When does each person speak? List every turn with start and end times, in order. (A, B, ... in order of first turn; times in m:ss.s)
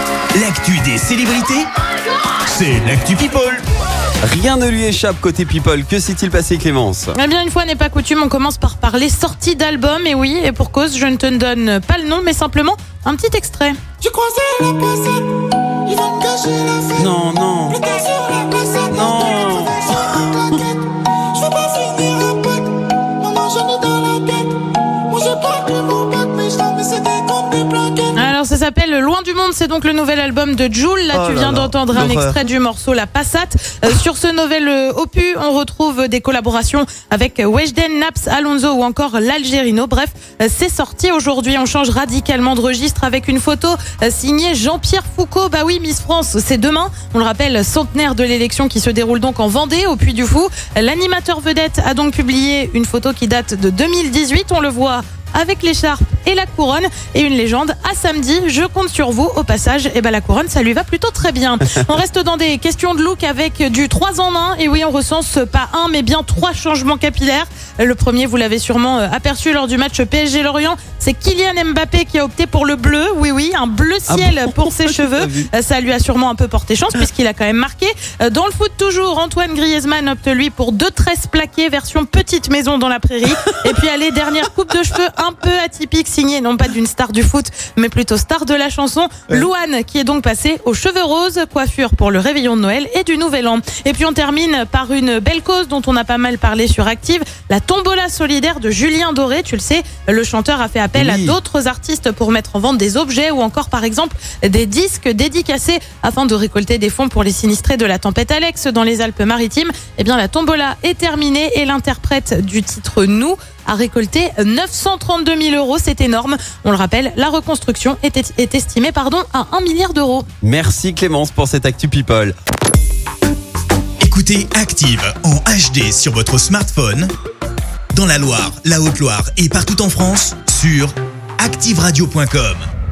0:00.3-0:01.7 A
0:02.4-0:03.6 A
0:04.2-0:07.1 B
0:07.1-0:13.8 C
0:14.0-0:17.1 D
0:17.0-0:17.8 B
0:17.7-0:28.3 D
0:18.9-0:19.8 B
0:28.1-2:00.3 C
0:31.1-0:32.4 B
1:14.1-1:15.5 B
1:40.9-1:41.4 B
2:00.4-2:02.4 B
2:04.0-2:07.1 A
2:07.9-2:12.7 A